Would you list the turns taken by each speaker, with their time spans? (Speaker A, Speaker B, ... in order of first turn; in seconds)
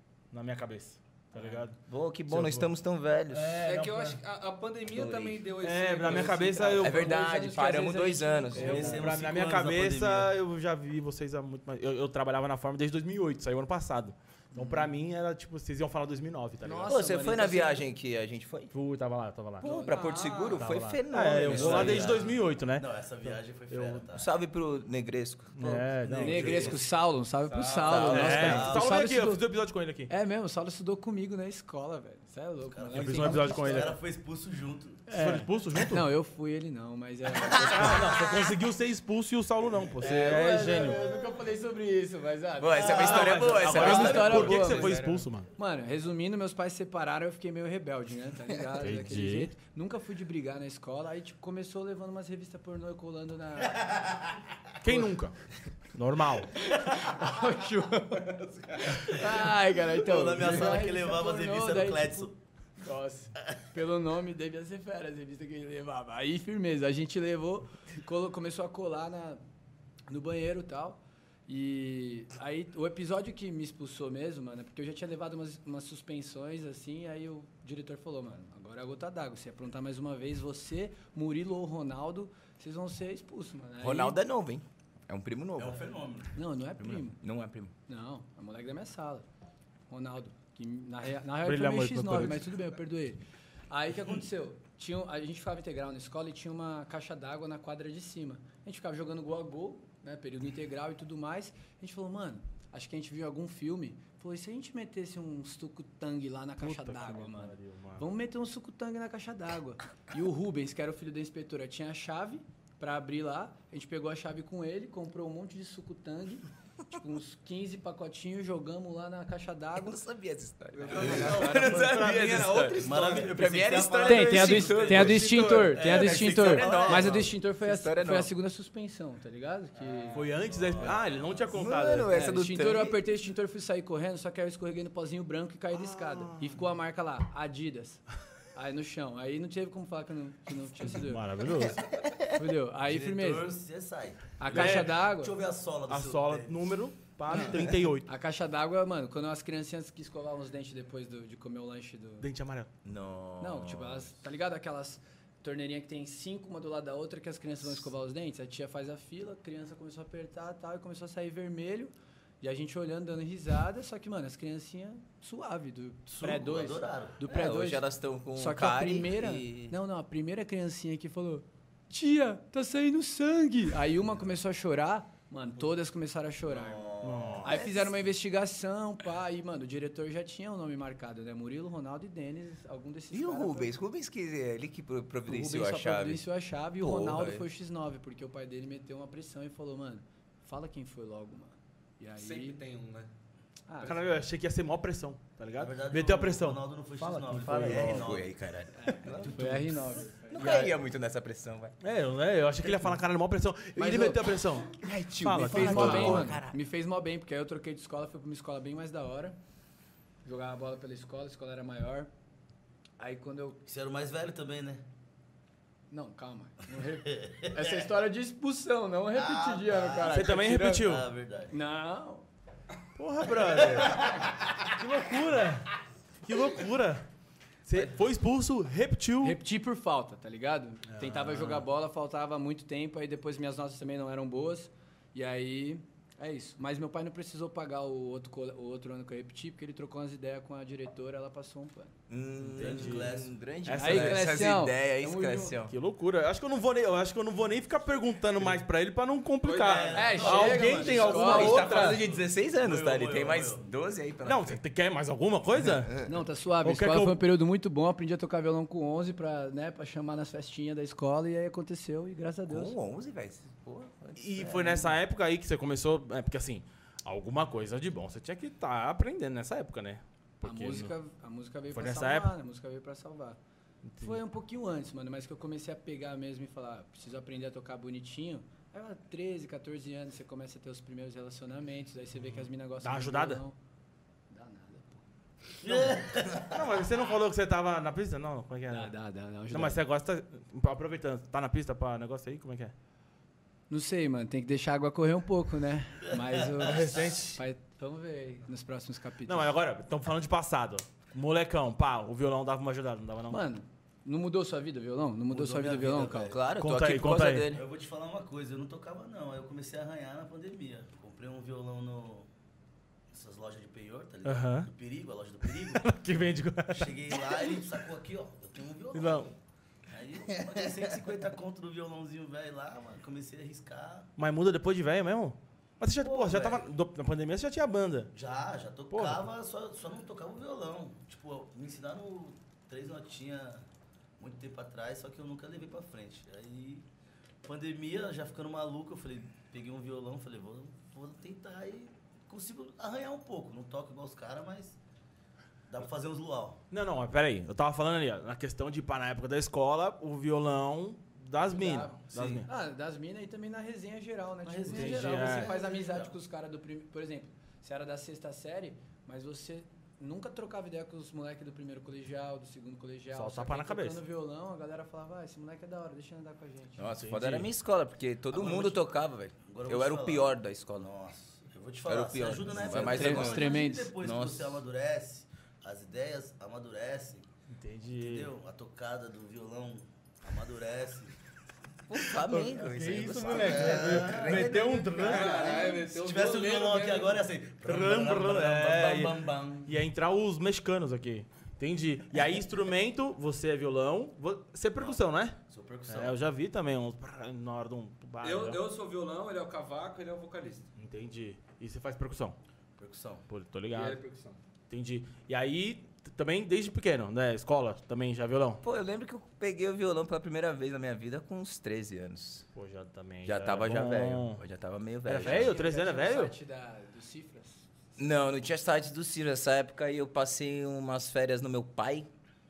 Speaker A: 0.3-2.7, 3.3-4.2, 5.6-7.2, 8.6-17.0, 18.7-19.7, 20.6-24.1, 25.6-26.8, 28.1-30.1, 32.9-34.0, 35.1-36.1, 37.6-41.0, 42.8-45.5, 48.8-49.5, 54.8-55.4, 55.9-56.5, 91.4-92.5, 106.6-108.1, 121.7-123.2, 130.1-132.2, 135.7-136.6, 140.8-141.9, 144.5-145.0, 145.9-148.1, 152.2-152.7, 177.0-177.6, 193.8-198.1, 199.1-199.6, 201.8-206.4, 220.1-221.1, 223.0-225.7, 226.2-227.1, 227.7-229.4, 230.9-231.7, 242.6-244.3, 245.7-252.0, 254.2-256.1, 256.6-257.3, 264.2-270.9, 271.7-272.3, 273.9-274.2, 282.8-283.4, 286.4-288.9, 289.5-292.7, 296.6-297.4, 299.3-303.4, 306.6-307.6, 314.2-314.7, 315.4-317.6, 318.9-319.3, 324.2-328.1, 328.9-329.3, 346.7-352.5, 354.7-355.6, 363.1-364.0, 366.9-367.5, 377.5-378.3, 382.2-385.4, 387.6-398.6, 400.8-402.4, 403.3-404.0, 404.7-408.6, 412.5-414.4, 415.1-416.3
Speaker B: 1.8-3.6, 4.9-5.4, 6.8-9.1, 16.9-18.7, 19.6-22.3, 24.1-25.8, 27.7-28.7, 37.4-38.2, 42.6-45.2, 83.8-85.9, 86.8-87.7, 119.8-128.3, 131.5-133.0, 152.8-154.2, 167.3-169.7, 183.1-186.2, 186.8-187.5, 197.7-199.7, 200.3-201.8, 204.6-206.6, 242.1-245.7, 251.1-254.6, 262.5-264.9, 306.3-307.6, 366.8-370.9, 371.9-374.6, 381.9-385.1, 408.6-412.5, 413.2-415.6, 418.0-422.1
Speaker C: 3.5-7.1, 19.6-20.7, 58.1-59.0, 120.7-123.3, 192.2-193.1, 249.4-250.0, 385.0-387.3, 398.2-400.7, 403.7-404.4
Speaker D: 6.7-9.1, 16.6-17.9, 19.6-20.0, 26.2-29.5, 30.1-34.0, 35.1-38.2, 40.0-45.0, 45.6-54.1, 54.8-55.1, 56.5-69.4, 70.1-84.2, 86.3-87.2, 87.9-89.3, 89.9-120.0, 124.0-130.3, 132.1-138.0, 138.6-141.2, 142.2-143.5, 144.4-145.4, 147.3-152.3, 153.4-183.7, 185.3-192.6, 193.7-194.1, 198.7-200.7, 203.8-204.3, 205.3-209.4, 210.2-212.1, 213.0-213.6, 215.9-220.8, 221.5-222.2, 229.2-241.9, 243.8-245.6, 249.9-251.7, 256.1-262.8, 270.4-273.4, 274.0-283.6, 284.3-285.0, 285.6-285.9, 288.7-289.8, 293.7-299.5, 303.3-306.4, 351.4-366.9, 372.6-373.9, 415.2-417.7
Speaker E: 8.6-10.3, 21.5-24.3, 25.6-26.9, 27.6-28.9, 32.7-35.0, 40.3-41.1, 59.1-62.3, 85.6-86.3, 120.9-122.1, 122.8-127.3, 130.1-131.5, 142.8-146.6, 166.1-167.2, 176.5-177.8, 195.6-198.3, 199.1-199.5, 213.7-214.8, 217.0-217.8, 219.1-221.6, 223.4-224.5, 242.5-243.3, 249.6-253.7, 285.6-286.6, 305.3-306.4, 307.5-312.3, 313.1-315.9, 316.7-319.3, 319.9-324.1, 326.0-326.7, 328.1-333.6, 334.2-336.9, 337.4-344.8, 345.7-346.6, 352.1-352.4, 354.4-356.1, 368.3-368.9, 369.4-377.3, 378.0-381.1, 383.3-389.8, 394.8-396.2, 402.8-403.2